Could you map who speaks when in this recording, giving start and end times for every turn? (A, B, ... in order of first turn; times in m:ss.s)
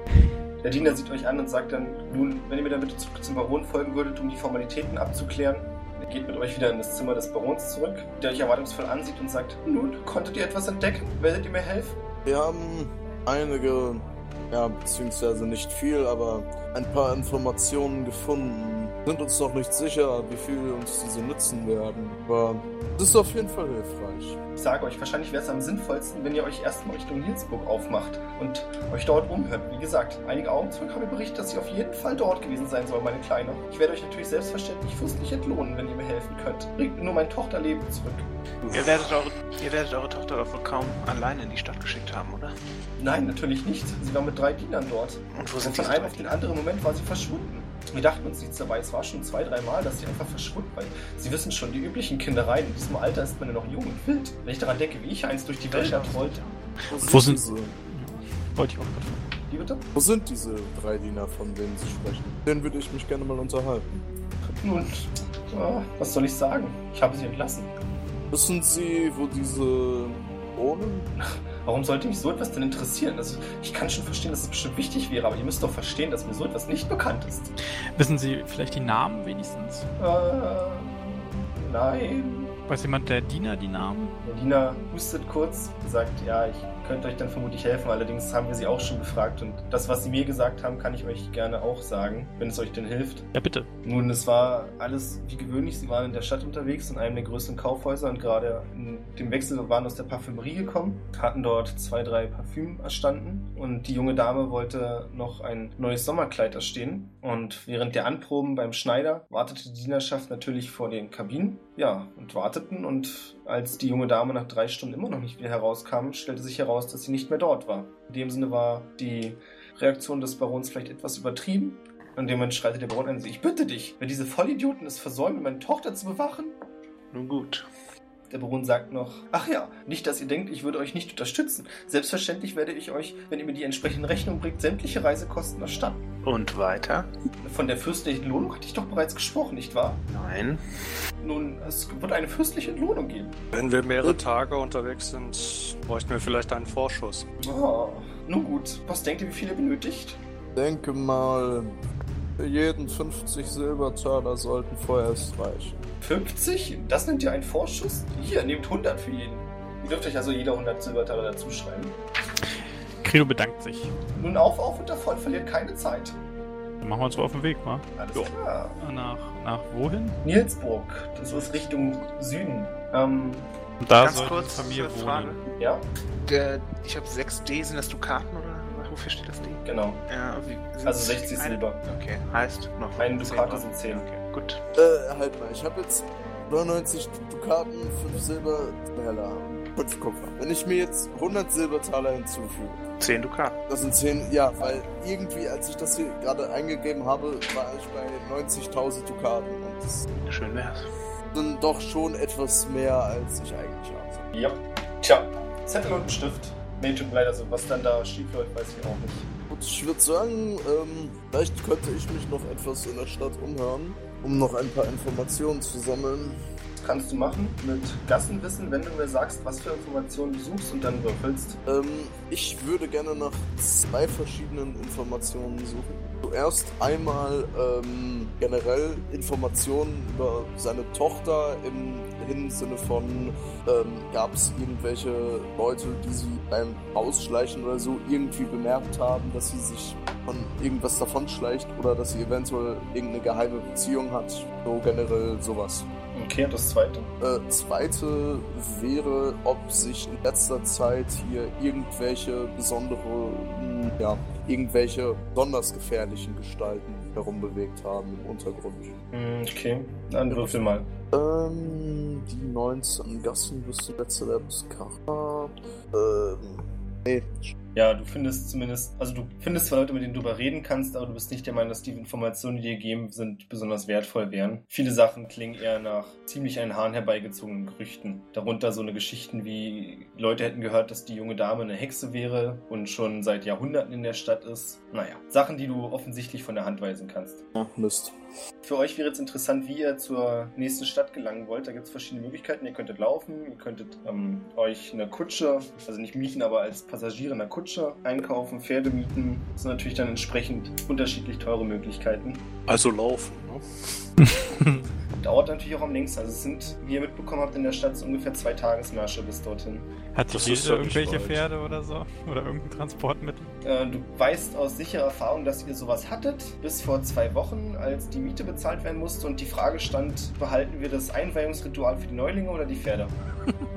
0:00.6-0:12.0 A
0:12.2-0:24.4 B
0:24.6-0:38.3 A
0:38.7-0:42.5 C
0:43.0-0:56.4 A
0:45.3-0:46.4 C
0:55.7-0:56.6 C
0:56.9-0:57.8 B
0:57.0-0:59.3 D
0:59.5-0:59.8 A
1:00.0-1:04.1 B
1:04.5-1:07.7 A
1:08.3-1:11.1 B
1:11.2-1:17.5 A
1:18.0-1:19.9 D
1:20.0-1:22.5 A
1:22.7-1:24.2 D
1:24.2-1:33.3 A
1:33.3-1:33.7 D
1:33.8-2:06.6 A
2:07.1-2:07.7 C
2:08.3-2:16.0 A
2:16.2-2:17.1 C
2:17.4-2:20.0 A
2:20.1-2:20.6 C
2:21.2-2:23.4 A
2:23.5-2:27.3 E
2:27.4-2:30.2 A
2:30.6-2:31.8 B
2:32.4-2:35.8 B
2:36.0-2:42.0 A
2:43.0-2:44.0 D
2:44.1-2:46.2 A
2:46.8-2:50.2 D
2:48.0-2:48.8 A
2:50.2-2:53.5 A
2:53.8-2:55.4 D
2:54.0-2:55.4 C
2:55.6-2:55.9 A
2:56.2-3:04.6 C
2:59.6-3:00.0 A
3:00.8-3:01.8 A
3:03.0-3:04.0 A
3:04.8-3:12.8 B
3:13.0-3:13.6 C
3:13.7-3:20.1 B
3:20.2-3:20.9 C
3:21.3-3:24.3 B
3:24.3-3:29.3 A
3:29.5-3:36.4 B
3:36.8-3:41.6 A
3:41.7-4:05.9 B
4:06.1-4:07.1 A
4:07.2-4:19.0 B
4:19.1-4:20.9 A
4:20.3-4:20.6 B
4:21.1-4:27.6 B
4:27.8-4:47.4 A
4:47.5-4:48.2 B
4:48.6-5:02.5 A
5:02.7-5:03.6 E
5:04.2-5:04.8 D
5:05.2-5:09.9 A
5:10.1-5:13.5 D
5:10.3-5:11.4 E
5:13.6-5:23.1 A